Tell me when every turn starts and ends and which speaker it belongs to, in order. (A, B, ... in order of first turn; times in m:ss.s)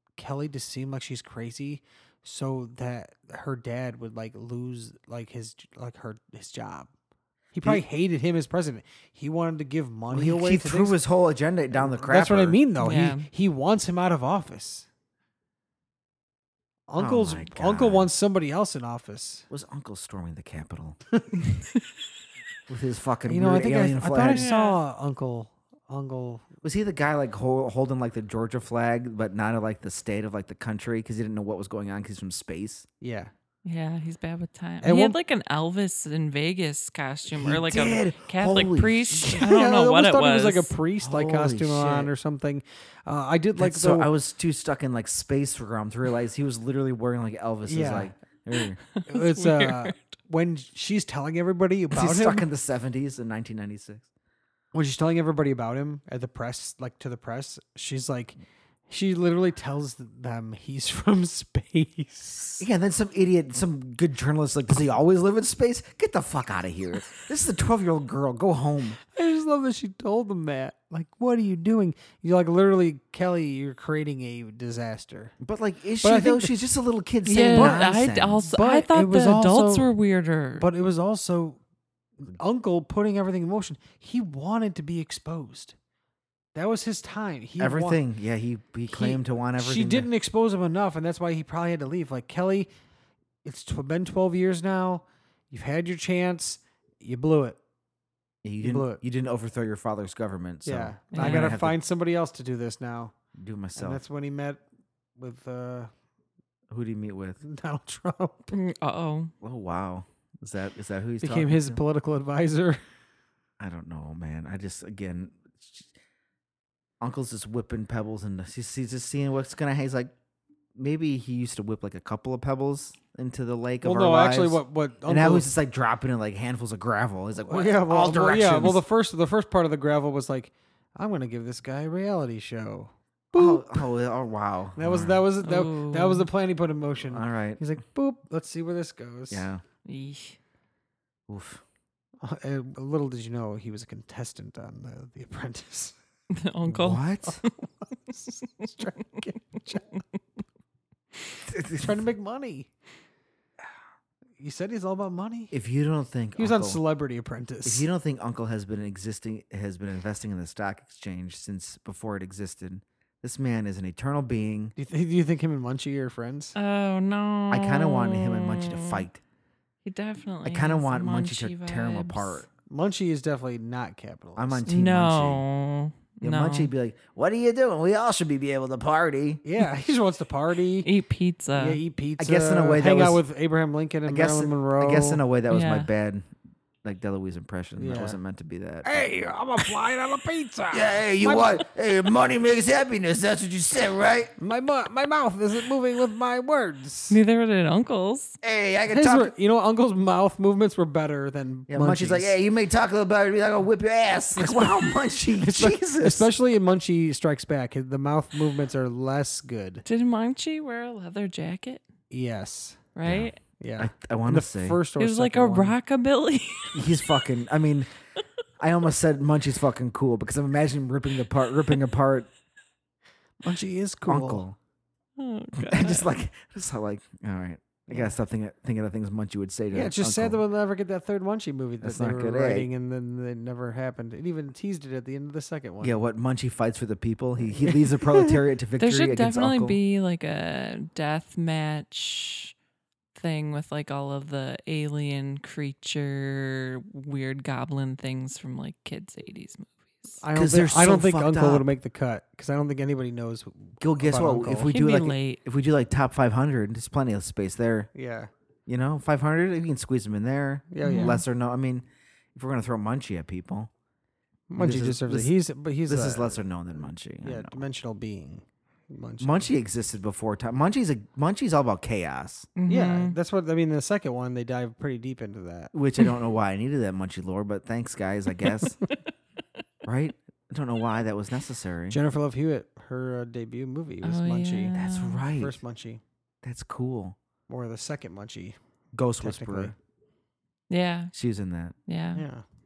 0:00.2-0:06.9 A
0:07.5-0:11.0 A
0:10.1-0:12.6 B
0:11.8-0:14.9 A
0:12.8-0:13.3 C
0:16.9-0:19.5 A
0:17.0-0:18.1 B
0:19.5-0:21.0 B
0:22.7-0:24.5 B
0:23.3-0:26.4 A
0:24.3-0:24.8 C
0:26.6-0:32.9 B
0:33.0-0:33.3 A
0:33.6-0:40.7 C
0:34.8-0:35.2 A
0:37.3-0:39.5 B
0:39.4-0:44.1 A
0:41.0-0:42.1 B
0:43.6-0:48.8 B
0:47.7-0:48.2 A
0:48.9-0:50.0 C
0:49.1-0:52.5 A
0:51.9-0:54.0 B
0:54.7-1:02.7 A
1:02.6-1:09.0 B
1:09.1-1:15.4 A
1:15.4-1:18.4 B
1:16.0-1:16.6 A
1:17.2-1:20.7 C
1:17.5-1:17.8 A
1:18.5-1:19.9 A
1:20.6-1:21.6 A
1:22.2-1:25.8 A
1:26.6-1:28.0 A
1:27.6-1:30.1 B
1:28.9-1:32.7 A
1:33.4-1:37.6 A
1:38.4-1:41.8 B
1:38.6-1:39.0 A
1:40.6-1:43.1 A
1:41.1-1:41.6 C
1:43.4-1:44.0 B
1:43.8-1:44.6 A
1:45.2-1:45.9 A
1:46.7-1:47.4 B
1:47.4-1:48.6 A
1:48.5-1:49.3 C
1:49.4-1:51.8 B
1:51.2-1:52.8 A
1:53.6-1:55.9 B
1:57.0-2:00.1 B
2:00.8-2:08.8 B
2:03.8-2:05.5 A
2:07.4-2:13.9 A
2:13.3-2:15.2 B
2:14.8-2:19.5 A
2:15.4-2:16.3 C
2:17.0-2:17.6 B
2:19.3-2:19.6 B
2:19.8-2:20.4 C
2:21.3-2:21.6 B
2:22.2-2:26.0 A
2:26.3-2:27.5 C
2:26.7-2:27.4 B
2:27.9-2:29.9 A
2:31.5-2:32.0 B
2:31.7-2:32.7 A
2:34.4-2:35.5 A
2:35.5-2:36.8 B
2:36.4-2:37.9 A
2:37.6-2:44.7 B
2:44.8-2:46.6 A
2:46.6-2:49.1 C
2:47.5-2:49.2 B
2:49.8-2:52.4 C
2:50.4-2:52.5 B
2:52.7-2:54.7 A
2:54.4-2:55.4 B
2:54.7-2:56.7 C
2:56.2-2:59.4 B
2:59.4-3:00.9 A
3:00.8-3:01.8 C
3:01.6-3:05.2 A
3:02.2-3:03.2 B
3:04.1-3:06.3 B
3:05.5-3:05.9 C
3:06.8-3:09.1 B
3:07.8-3:08.2 A
3:08.8-3:11.7 A
3:10.7-3:14.3 B
3:14.4-3:17.2 A
3:17.1-3:18.4 C
3:18.4-3:19.3 B
3:18.9-3:22.4 A
3:21.7-3:26.3 B
3:25.4-3:29.8 A
3:29.8-3:31.8 C
3:32.1-3:32.8 A
3:33.0-3:33.4 C
3:33.0-3:34.8 B
3:33.6-3:35.8 A
3:35.0-3:37.1 C
3:36.7-3:37.9 B
3:38.6-3:42.3 B
3:43.4-3:44.4 A
3:44.0-3:44.6 B
3:45.2-3:46.1 C
3:45.6-3:50.4 B
3:49.7-3:56.0 A
3:51.8-3:52.7 B
3:55.8-3:59.8 B
3:58.8-4:02.5 C
4:03.2-4:10.2 C
4:10.2-4:14.7 A
4:10.3-4:11.7 B
4:13.8-4:17.9 B
4:14.7-4:15.4 C
4:17.9-4:18.3 A
4:18.7-4:23.7 B
4:20.7-4:21.2 A
4:20.8-4:21.2 C
4:24.5-4:26.4 A
4:24.6-4:25.3 B
4:25.9-4:27.6 B
4:27.2-4:29.5 A
4:29.2-4:32.5 B
4:32.6-4:33.2 C
4:32.7-4:35.7 A
4:35.7-4:38.8 B
4:39.8-4:42.0 B
4:41.9-4:44.8 A
4:44.0-4:45.2 C
4:44.8-4:45.6 B
4:45.3-4:46.0 A
4:46.4-4:47.2 B
4:47.5-4:48.6 A
4:48.9-4:49.7 B
4:49.2-4:49.8 A
4:50.7-4:51.1 C
4:51.1-4:51.8 B
4:51.9-4:52.2 C
4:52.1-4:52.4 A